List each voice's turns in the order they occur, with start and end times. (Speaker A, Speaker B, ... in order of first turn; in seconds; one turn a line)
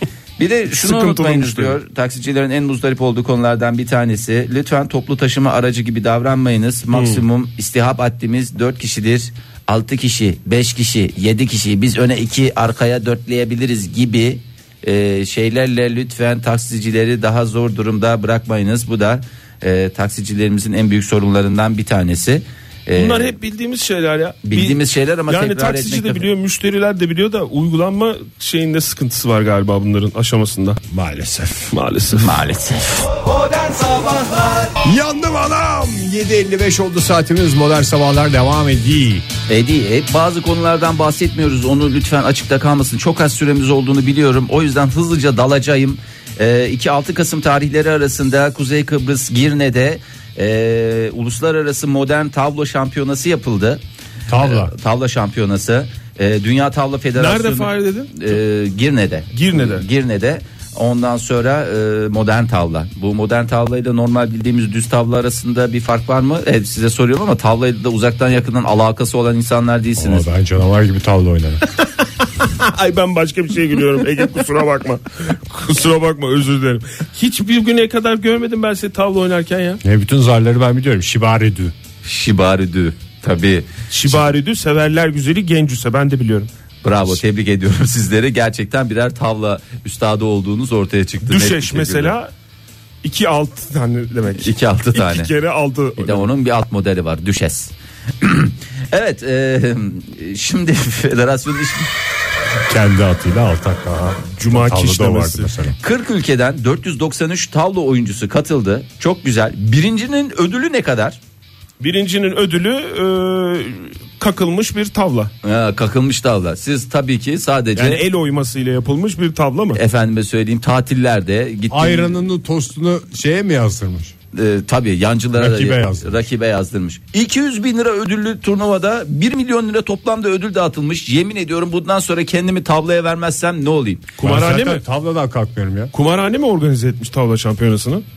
Speaker A: 0.4-23.3
Speaker B: 0.8-1.7
Speaker B: 6.9-7.2
Speaker B: 22.9-30.8
Speaker A: 24.4-26.3
Speaker C: 30.9-31.7
Speaker B: 31.7-32.4
Speaker A: 32.1-34.7
Speaker C: 34.8-39.2
Speaker A: 39.5-53.8
Speaker C: 54.3-54.7
Speaker A: 54.4-70.2
Speaker B: 57.1-58.2
Speaker B: 59.3-59.8
Speaker C: 70.0-71.6
Speaker B: 72.4-79.8
Speaker C: 79.8-81.7
Speaker A: 82.0-84.2
Speaker B: 83.9-86.5
Speaker A: 86.8-92.1
Speaker B: 91.2-92.3
Speaker B: 93.0-96.3
Speaker A: 94.4-95.3
Speaker A: 96.0-101.9
Speaker C: 102.7-105.8
Speaker B: 104.4-105.5
Speaker A: 105.8-111.2
Speaker B: 111.8-115.3
Speaker A: 115.4-118.0
Speaker B: 117.8-119.8
Speaker A: 119.7-122.2
Speaker C: 121.7-124.1
Speaker A: 124.3-134.1
Speaker C: 125.3-126.2
Speaker B: 134.2-134.8
Speaker C: 134.2-135.9
Speaker B: 135.9-138.0